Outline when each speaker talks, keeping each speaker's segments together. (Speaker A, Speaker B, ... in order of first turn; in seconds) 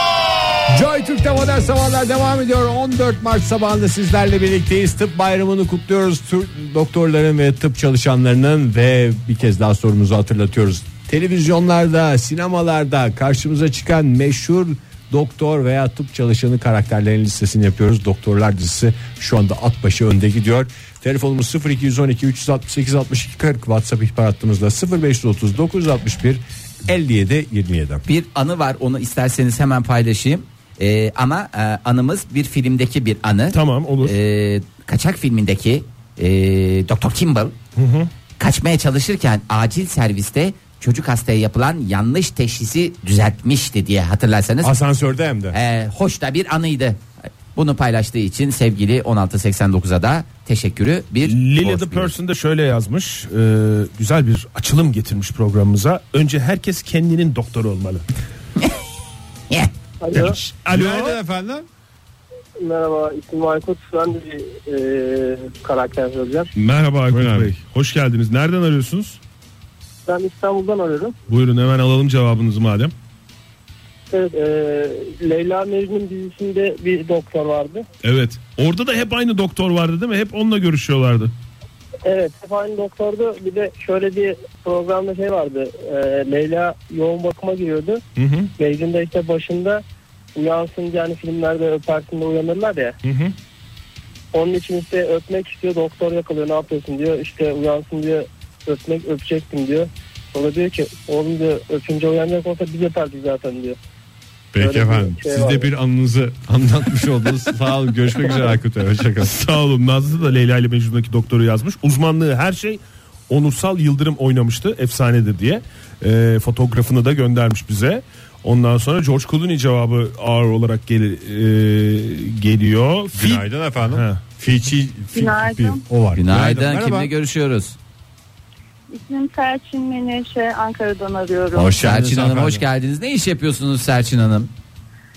Speaker A: 0.7-28.0, 44.6-45.6, 60.7-61.7, 67.1-67.5, 104.5-109.4, 123.1-127.1, 131.5-132.7
Speaker B: 28.1-37.5, 38.4-44.8, 45.5-47.0, 47.5-52.1, 126.2-127.8, 131.8-134.5
Speaker C: 33.5-34.1, 37.8-38.1, 51.3-58.0, 60.1-61.2, 66.6-69.2, 71.3-72.9, 78.0-81.3, 88.2-88.5, 93.0-93.3, 109.2-124.2
Speaker D: 60.0-60.4, 62.6-66.5, 70.1-71.2, 74.1-77.9, 82.0-88.0, 88.6-89.8, 90.3-93.0, 94.3-103.8, 104.6-105.7
Speaker E: 125.1-125.8, 128.9-131.8